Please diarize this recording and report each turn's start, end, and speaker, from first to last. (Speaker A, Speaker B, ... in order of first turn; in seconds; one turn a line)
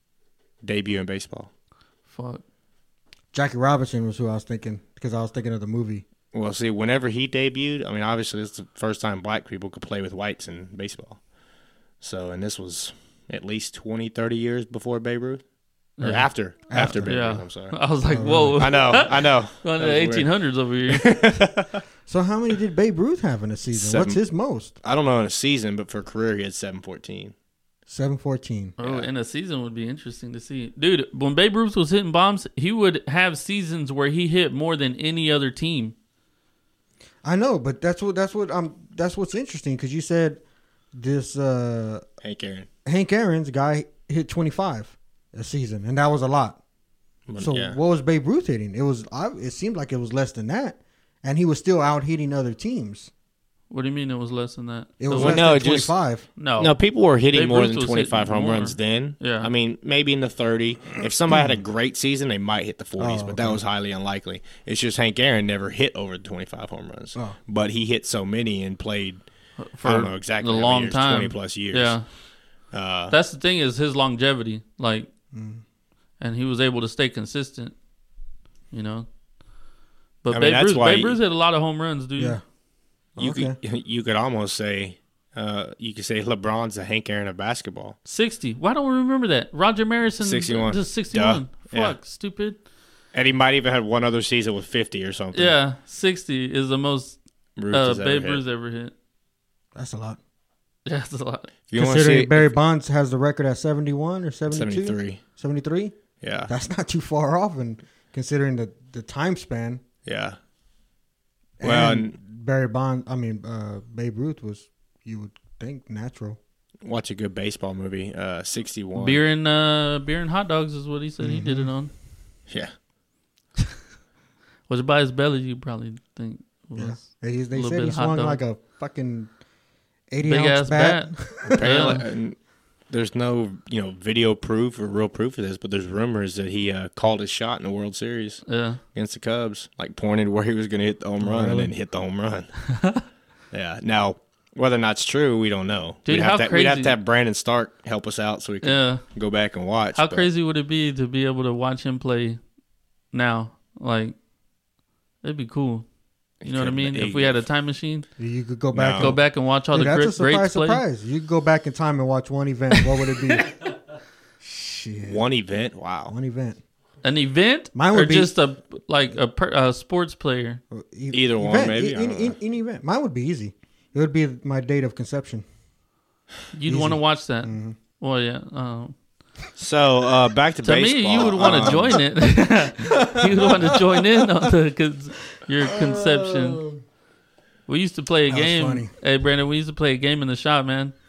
Speaker A: 0.6-1.5
Speaker B: 2.1-2.4
Speaker C: 3.3-6.0
Speaker A: 6.3-11.2
Speaker A: 12.0-15.4
Speaker B: 16.0-21.3
Speaker A: 16.0-17.8
Speaker C: 16.7-17.2
Speaker C: 18.1-19.0
Speaker A: 18.6-20.3
Speaker A: 20.9-21.8
Speaker C: 22.1-24.8
Speaker A: 23.7-24.2
Speaker A: 24.8-27.3
Speaker C: 27.9-28.8
Speaker B: 28.8-36.0
Speaker A: 28.8-29.1
Speaker C: 37.2-40.4
Speaker C: 41.0-42.0
Speaker A: 42.2-42.7
Speaker C: 42.9-46.6
Speaker A: 47.3-47.8
Speaker C: 47.4-53.1
Speaker B: 53.7-55.4
Speaker C: 55.0-56.3
Speaker A: 55.2-55.9
Speaker B: 56.4-56.8
Speaker A: 56.6-69.2
Speaker B: 57.3-59.5
Speaker C: 61.3-61.6
Speaker C: 63.0-63.6
Speaker B: 69.6-72.1
Speaker A: 69.8-72.0
Speaker A: 72.7-73.2
Speaker B: 73.1-75.1
Speaker C: 75.3-75.6
Speaker B: 76.2-77.8
Speaker B: 78.7-79.1
Speaker B: 80.2-82.4
Speaker A: 80.3-81.2
Speaker C: 82.2-82.4
Speaker C: 83.2-83.6
Speaker A: 83.2-88.0
Speaker B: 88.0-92.6
Speaker A: 90.2-92.0
Speaker A: 93.1-95.5
Speaker B: 95.3-97.2
Speaker A: 97.6-98.4
Speaker B: 97.7-98.9
Speaker C: 99.8-100.2
Speaker B: 100.9-101.5
Speaker A: 101.7-102.5
Speaker C: 101.8-106.0
Speaker A: 104.5-105.2
Speaker A: 106.2-106.5
Speaker C: 106.5-109.8
Speaker A: 110.1-110.4
Speaker C: 111.6-116.4
Speaker A: 111.6-112.2
Speaker A: 116.8-119.2
Speaker B: 119.0-121.9
Speaker C: 121.2-121.7
Speaker A: 122.5-122.7
Speaker B: 124.7-128.4
Speaker C: 126.8-129.3
Speaker C: 130.1-131.9
Speaker B: 130.2-132.1
Speaker A: 131.5-132.4
Speaker A: 132.9-142.6
Speaker B: 138.5-138.8
Speaker C: 141.2-141.7
Speaker B: 142.7-143.0
Speaker A: 143.5-150.3
Speaker B: 146.1-147.0
Speaker B: 148.6-149.0
Speaker B: 150.0-152.4
Speaker B: 153.1-154.2
Speaker B: 155.2-155.9
Speaker A: 156.4-157.4
Speaker B: 156.4-158.1
Speaker C: 158.2-163.8
Speaker A: 158.7-159.2
Speaker B: 159.0-160.8
Speaker C: 164.4-165.2
Speaker A: 165.1-166.1
Speaker C: 166.1-166.6
Speaker B: 167.0-170.6
Speaker C: 167.8-168.3
Speaker C: 170.7-175.4
Speaker A: 171.1-172.3
Speaker B: 176.5-178.9
Speaker C: 176.7-177.8
Speaker A: 179.6-182.0
Speaker B: 180.6-186.6
Speaker C: 181.2-182.0
Speaker C: 182.8-184.0
Speaker C: 185.6-186.8
Speaker B: 187.7-190.9
Speaker C: 188.3-188.9